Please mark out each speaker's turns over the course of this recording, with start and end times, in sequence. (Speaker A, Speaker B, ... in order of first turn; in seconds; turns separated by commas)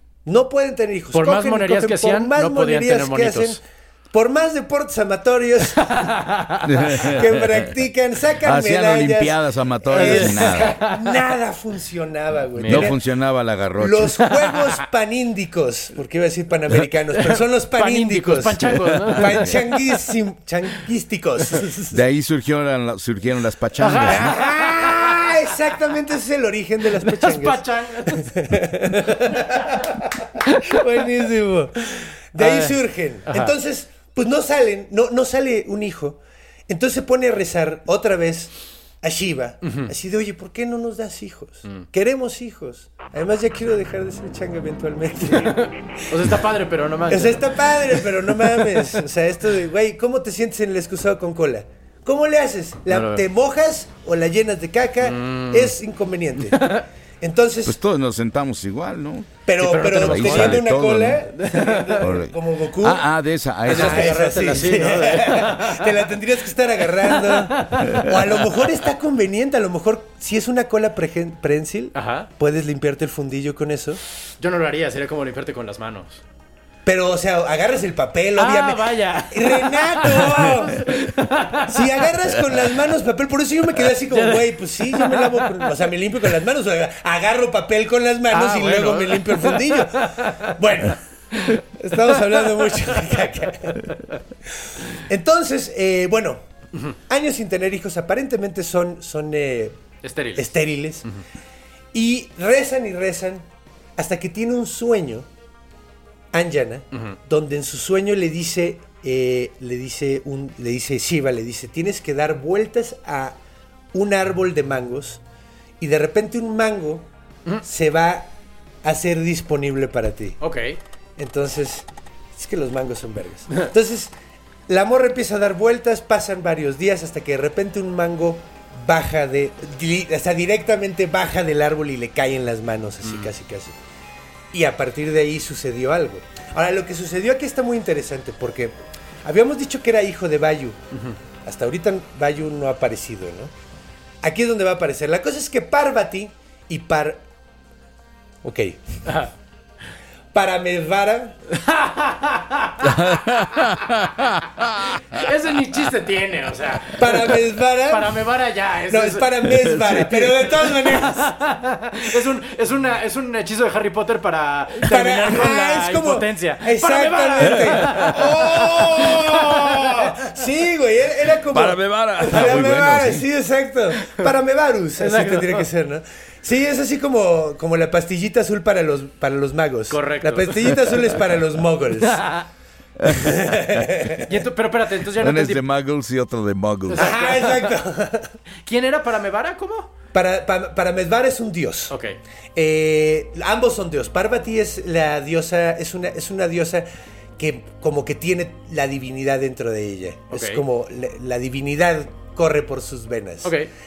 Speaker A: 0.2-6.1, Speaker B: 1.1-3.6, Speaker B: 5.9-7.1, Speaker C: 6.6-7.7, Speaker A: 6.8-13.0, Speaker C: 8.4-10.8, Speaker B: 9.9-11.2, Speaker B: 12.6-12.9, Speaker C: 12.7-14.2, Speaker A: 13.8-22.0, Speaker B: 14.4-14.7, Speaker B: 17.1-20.1, Speaker C: 21.9-24.4, Speaker B: 23.8-25.6, Speaker A: 24.1-45.7, Speaker B: 26.9-28.3, Speaker B: 30.4-30.8, Speaker B: 32.4-33.5, Speaker B: 39.6-39.9, Speaker B: 45.3-48.9, Speaker A: 47.1-57.8, Speaker B: 52.9-53.2, Speaker B: 55.0-55.7, Speaker B: 56.4-56.8, Speaker C: 57.6-61.3, Speaker A: 59.5-63.0, Speaker B: 59.6-60.8, Speaker B: 61.4-62.2, Speaker C: 62.0-64.5, Speaker B: 63.6-66.1, Speaker A: 63.6-74.0, Speaker B: 66.8-68.7, Speaker B: 71.9-72.3, Speaker B: 74.4-76.2, Speaker A: 76.8-81.0, Speaker B: 78.3-82.6, Speaker A: 81.7-93.9, Speaker B: 83.7-86.4, Speaker B: 88.3-92.8, Speaker A: 94.9-96.4, Speaker A: 97.0-99.8, Speaker B: 100.0-100.5, Speaker A: 100.3-101.1, Speaker A: 101.9-103.4, Speaker A: 104.0-105.3, Speaker A: 106.3-113.4, Speaker B: 106.9-107.2, Speaker A: 113.9-115.2, Speaker A: 115.8-117.1, Speaker A: 117.6-118.3, Speaker A: 118.8-120.4, Speaker B: 120.4-120.8, Speaker A: 121.2-124.1, Speaker A: 124.7-133.8, Speaker B: 133.0-133.3, Speaker A: 134.5-140.8, Speaker A: 141.4-143.5, Speaker A: 144.2-147.2, Speaker A: 148.4-149.2, Speaker B: 149.1-149.3, Speaker A: 150.3-151.3, Speaker B: 151.5-153.7, Speaker C: 152.8-155.8, Speaker B: 155.1-170.1, Speaker A: 157.0-158.1, Speaker A: 158.9-161.3, Speaker C: 159.6-160.0, Speaker A: 164.8-182.2, Speaker C: 171.5-173.2, Speaker B: 172.3-172.6, Speaker B: 174.0-174.3, Speaker B: 175.0-175.7, Speaker B: 179.9-181.2, Speaker B: 182.0-182.5, Speaker C: 183.0-183.9, Speaker A: 183.1-184.3, Speaker B: 184.2-185.6, Speaker C: 185.2-187.1, Speaker B: 186.9-187.7, Speaker A: 187.0-188.3, Speaker B: 188.6-189.9, Speaker A: 190.1-191.9, Speaker B: 191.9-192.2, Speaker A: 192.5-196.8, Speaker A: 197.4-203.6, Speaker B: 200.3-200.6, Speaker B: 203.4-203.7